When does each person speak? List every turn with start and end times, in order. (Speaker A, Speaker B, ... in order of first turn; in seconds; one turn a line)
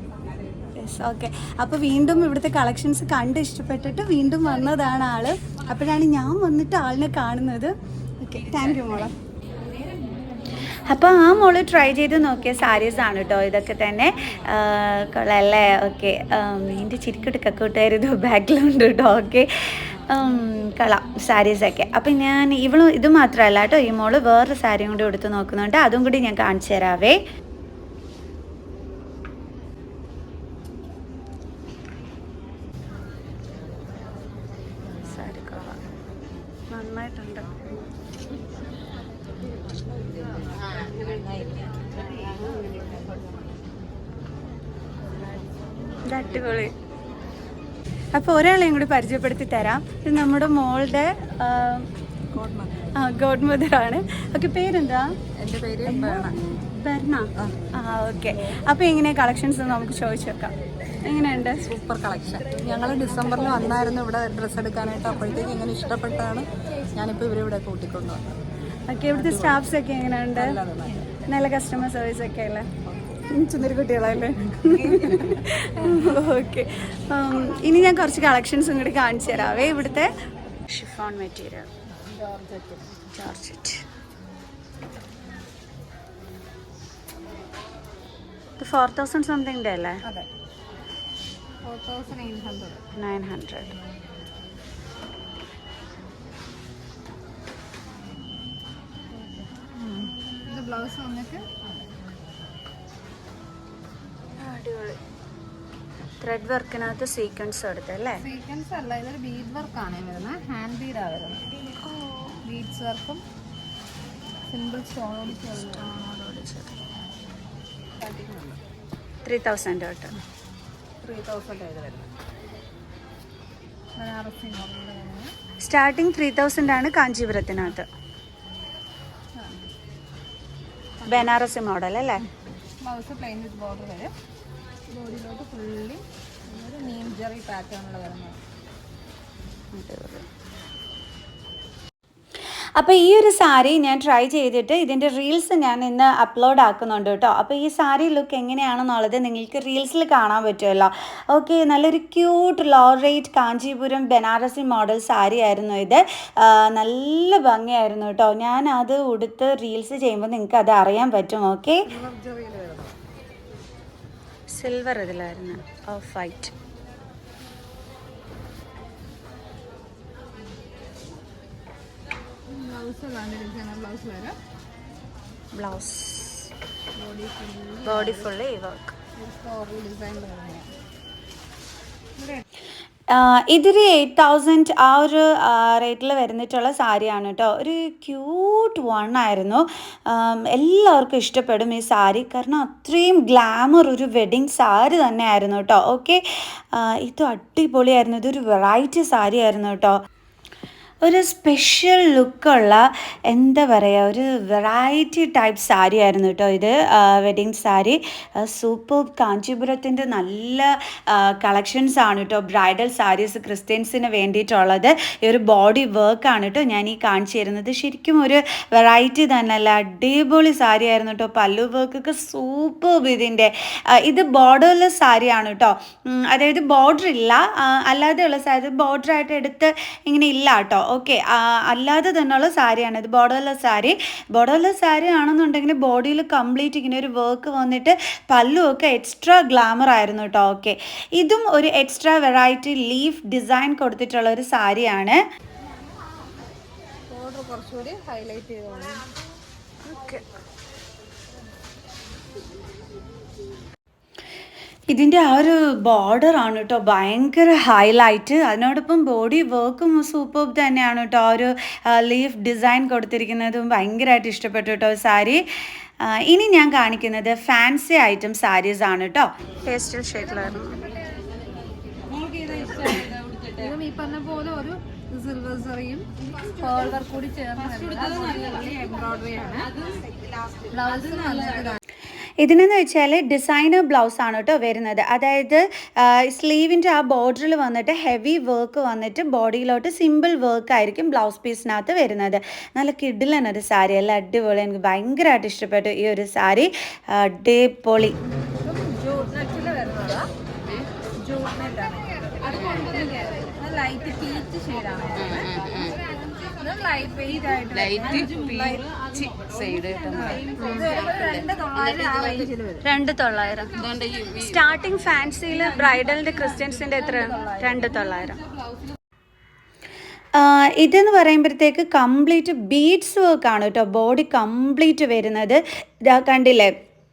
Speaker A: 0.8-9.1
Speaker A: 10.9-27.2
Speaker A: 35.0-35.8
Speaker A: 36.7-37.6
Speaker B: 40.6-40.9
Speaker C: 41.2-41.5
Speaker C: 42.1-43.0
Speaker A: 46.0-46.7
Speaker A: 48.1-51.9
Speaker C: 52.3-53.0
Speaker A: 52.9-55.1
Speaker C: 55.4-56.4
Speaker A: 55.8-60.5
Speaker A: 61.0-61.7
Speaker C: 61.6-68.3
Speaker A: 68.9-70.6
Speaker C: 69.1-69.6
Speaker C: 70.3-71.1
Speaker A: 71.2-72.7
Speaker C: 72.8-73.2
Speaker A: 73.2-80.1
Speaker A: 80.7-81.7
Speaker C: 81.9-83.0
Speaker A: 83.1-83.8
Speaker A: 88.6-90.0
Speaker C: 91.6-92.8
Speaker A: 92.9-93.7
Speaker C: 99.6-101.9
Speaker A: 104.4-105.0
Speaker A: 106.2-108.2
Speaker C: 108.2-111.5
Speaker A: 111.8-112.4
Speaker C: 112.4-113.2
Speaker C: 114.5-115.9
Speaker A: 115.6-116.8
Speaker C: 118.0-118.6
Speaker A: 119.2-120.1
Speaker C: 121.0-122.1
Speaker C: 124.0-125.3
Speaker A: 125.6-127.9
Speaker A: 131.0-132.2
Speaker C: 132.8-134.1
Speaker C: 134.9-138.4
Speaker A: 139.7-140.3
Speaker A: 142.8-161.8
Speaker C: 161.8-163.0
Speaker A: 164.5-166.5
Speaker C: 172.5-174.4
Speaker A: 175.5-176.5
Speaker C: 176.9-178.3
Speaker A: 177.8-178.9
Speaker C: 179.2-180.7
Speaker A: 183.1-196.2
Speaker A: 196.7-200.0
Speaker A: 201.0-245.2
Speaker C: 247.1-249.0
Speaker A: 249.9-250.2
Speaker A: 254.9-265.4
Speaker A: 266.0-270.8
Speaker B: 272.2-273.5
Speaker C: 273.5-280.1
Speaker C: 280.6-281.8
Speaker A: 282.4-298.1
Speaker C: 298.5-300.3
Speaker C: 301.2-305.6
Speaker B: 302.5-302.9
Speaker B: 305.2-306.0
Speaker C: 306.3-308.9
Speaker B: 307.6-311.5
Speaker C: 310.2-312.9
Speaker A: 310.6-310.9
Speaker A: 312.8-313.7
Speaker B: 313.8-314.6
Speaker A: 314.4-318.4
Speaker C: 317.2-317.8
Speaker A: 320.4-326.7